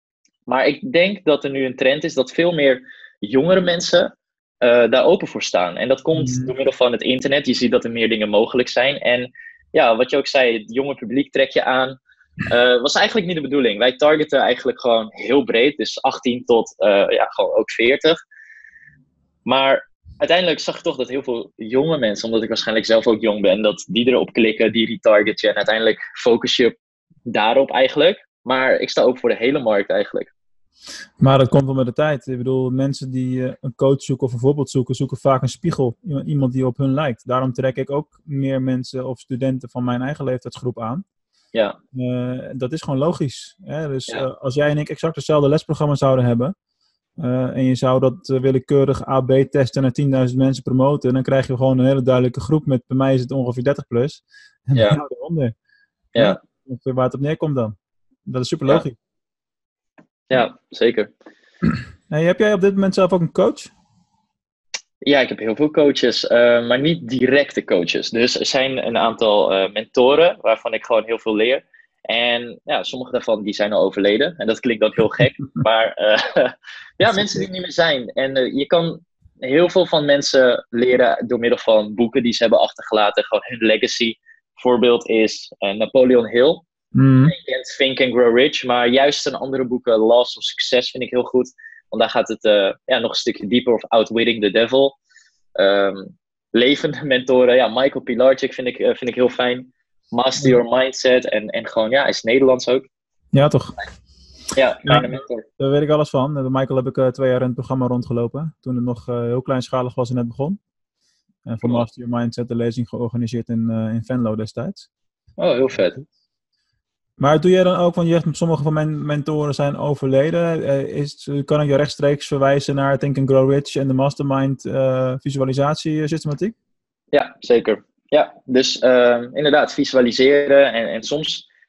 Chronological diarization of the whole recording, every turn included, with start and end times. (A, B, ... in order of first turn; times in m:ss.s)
0:00.5-0:18.2 A
0:06.2-0:06.5 B
0:19.4-0:26.8 A
0:27.3-0:30.3 A
0:31.2-0:41.0 B
0:41.9-0:46.5 B
0:47.2-0:55.5 B
0:56.2-0:59.0 B
1:00.3-1:01.1 A
1:02.1-1:03.7 B
1:05.0-1:26.6 A
1:17.1-1:17.5 B
1:26.9-1:27.3 B
1:27.2-1:35.0 A
1:35.6-1:42.8 A
1:43.3-1:43.8 B
1:44.5-1:45.4 A
1:44.8-1:50.6 B
1:51.4-1:54.9 B
1:55.4-1:56.0 A
1:57.2-2:06.5 B
2:07.1-2:11.4 A